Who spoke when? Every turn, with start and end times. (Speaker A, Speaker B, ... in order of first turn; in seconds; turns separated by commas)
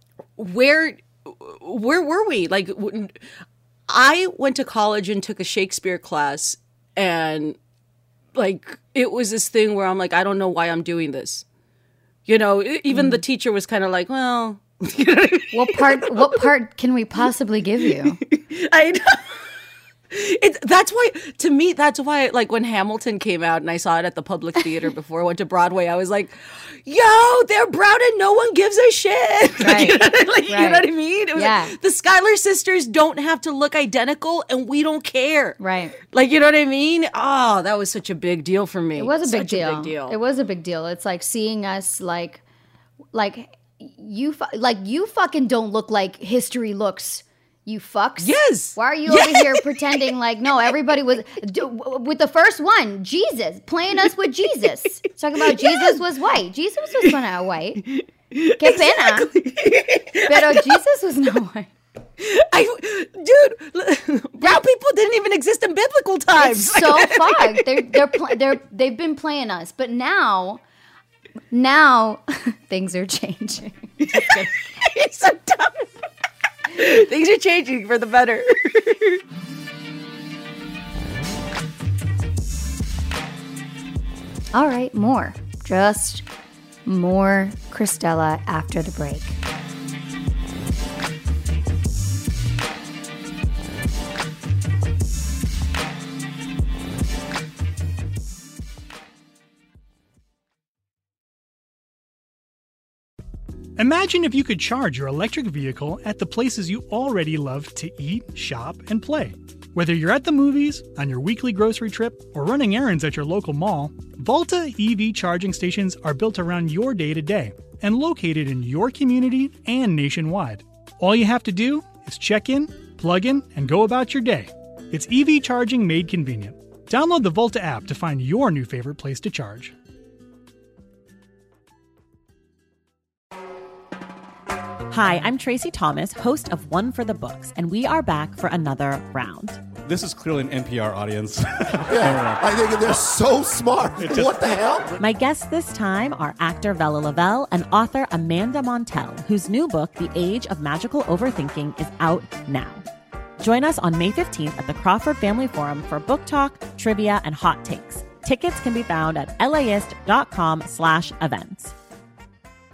Speaker A: 0.4-3.2, Speaker A: 3.9-7.6, Speaker A: 8.3-11.4, Speaker A: 12.2-16.4, Speaker B: 12.9-13.2, Speaker B: 15.5-18.2, Speaker A: 17.8-19.5, Speaker A: 20.1-40.2, Speaker B: 29.6-31.7, Speaker B: 35.6-35.9, Speaker B: 39.0-42.4, Speaker B: 43.1-57.8, Speaker A: 48.2-49.6, Speaker A: 55.4-56.0, Speaker A: 57.8-60.7, Speaker B: 58.6-59.3, Speaker B: 60.3-61.7, Speaker A: 62.2-68.4, Speaker B: 66.4-70.6, Speaker B: 71.5-74.3, Speaker A: 74.0-76.0, Speaker A: 76.7-79.2, Speaker B: 84.5-86.2, Speaker B: 86.8-89.4, Speaker C: 103.8-129.7, Speaker D: 134.9-139.6, Speaker E: 139.8-142.9, Speaker F: 141.8-144.9, Speaker E: 144.0-144.6, Speaker D: 145.0-152.8, Speaker D: 153.4-161.7